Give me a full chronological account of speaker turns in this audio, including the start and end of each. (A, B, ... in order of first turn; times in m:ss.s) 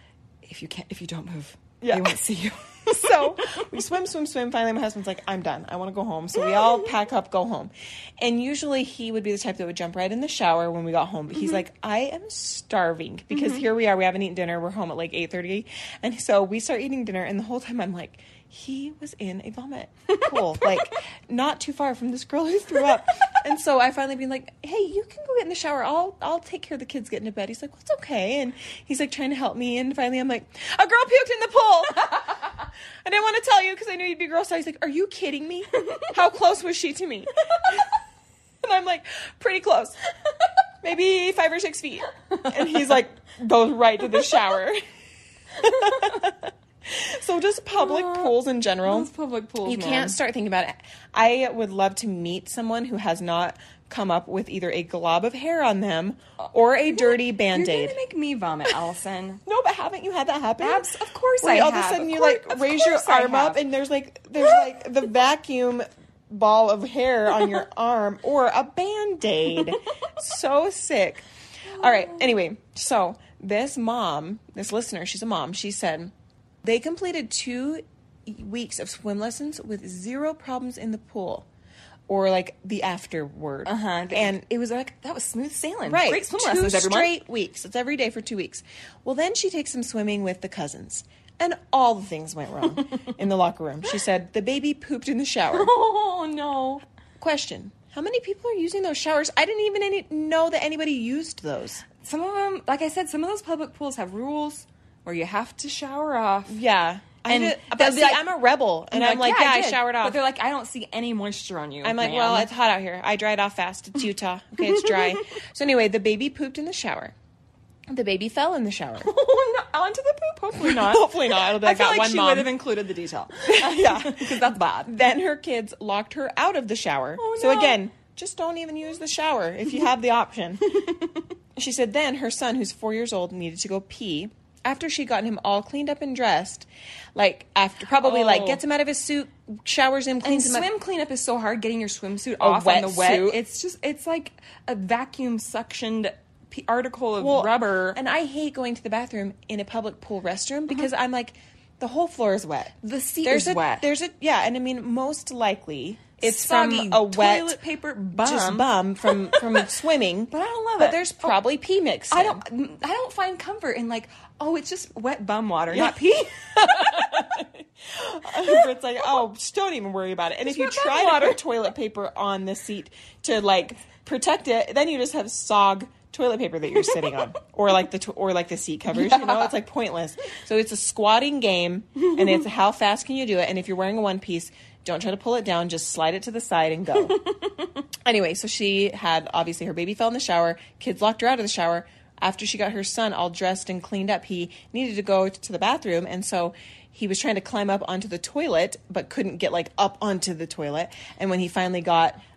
0:00.4-0:03.7 A
0:01.8-0:02.2 B
0:02.9-0:37.9 B
0:06.5-0:06.8 A
0:13.3-0:13.6 A
0:20.1-0:20.8 A
0:35.8-0:36.1 A
0:38.6-0:40.0 B
0:40.8-0:44.8 B
0:42.3-0:42.8 A
0:45.6-0:49.1 B
0:45.6-0:46.2 A
0:47.7-0:50.2 A
0:49.6-0:58.0 B
0:56.9-0:59.4 A
0:59.4-1:00.9 B
1:00.6-1:03.6 A
1:01.4-1:21.5 B
1:11.8-1:12.2 A
1:22.1-1:24.9 B
1:23.6-1:27.1 A
1:25.8-1:35.7 B
1:35.5-1:36.8 A
1:37.2-1:41.8 B
1:42.0-1:46.6 A
1:46.5-1:50.2 B
1:47.2-1:48.2 A
1:48.9-1:52.5 A
1:51.8-1:57.1 B
1:54.6-1:55.2 A
1:57.9-1:59.1 B
1:59.0-2:04.9 A
2:00.6-2:02.5 B
2:03.5-2:10.6 B
2:07.2-2:07.8 A
2:10.7-2:11.2 A
2:11.6-2:20.7 B
2:18.0-2:18.6 A
2:20.2-2:28.0 A
2:22.4-2:23.4 B
2:27.2-2:37.6 B
2:32.8-2:33.8 A
2:36.2-2:39.8 A
2:38.1-2:42.4 B
2:40.3-2:41.4 A
2:42.1-2:47.3 A
2:45.7-2:46.0 B
2:46.5-3:07.2 B
2:48.3-2:48.7 A
2:50.4-2:51.4 A
2:58.9-2:59.5 A
3:07.2-3:07.7 A
3:08.0-3:22.2 B